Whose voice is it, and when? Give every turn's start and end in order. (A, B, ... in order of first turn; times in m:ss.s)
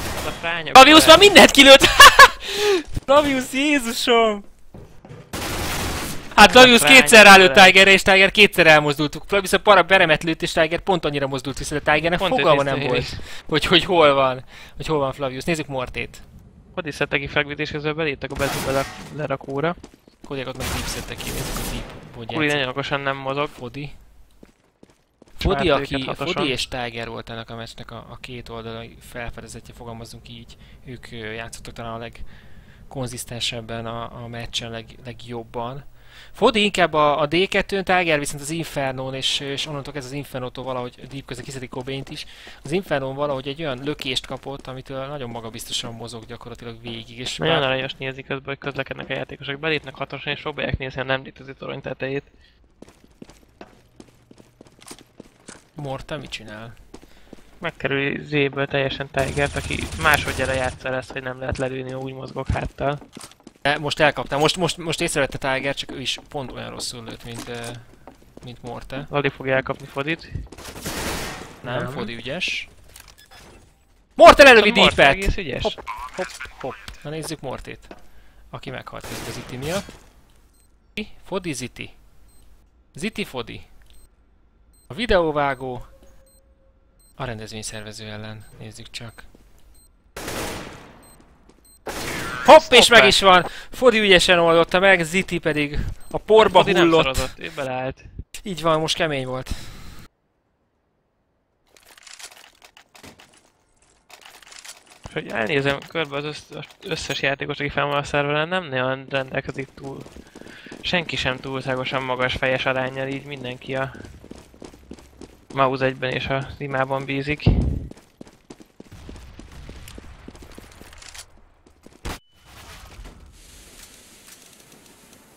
0:00.2-0:01.3 A
0:00.7-0:04.5 B
0:06.3-0:16.2 B
0:06.4-0:07.8 A
0:12.1-0:13.2 A
0:16.7-0:19.8 A
0:20.2-0:22.8 B
0:22.3-0:23.6 A
0:23.4-0:24.0 B
0:25.4-0:32.3 B
0:25.4-0:26.6 A
0:32.9-0:47.7 B
0:47.4-0:52.3 A
0:55.8-0:56.8 B
0:57.6-1:03.0 A
1:03.6-1:09.1 B
1:09.1-1:10.5 A
1:11.6-1:12.7 B
1:11.6-1:12.1 A
1:14.2-1:17.9 B
1:14.6-1:15.8 A
1:18.5-1:20.0 B
1:21.0-1:22.0 B
1:22.9-1:23.7 B
1:24.9-1:25.9 B
1:27.2-1:29.3 B
1:32.4-1:37.4 B
1:32.5-1:33.2 A
1:36.4-1:38.2 A
1:38.4-1:40.0 B
1:45.1-1:50.2 A
1:50.8-1:54.2 A
1:55.5-1:57.9 A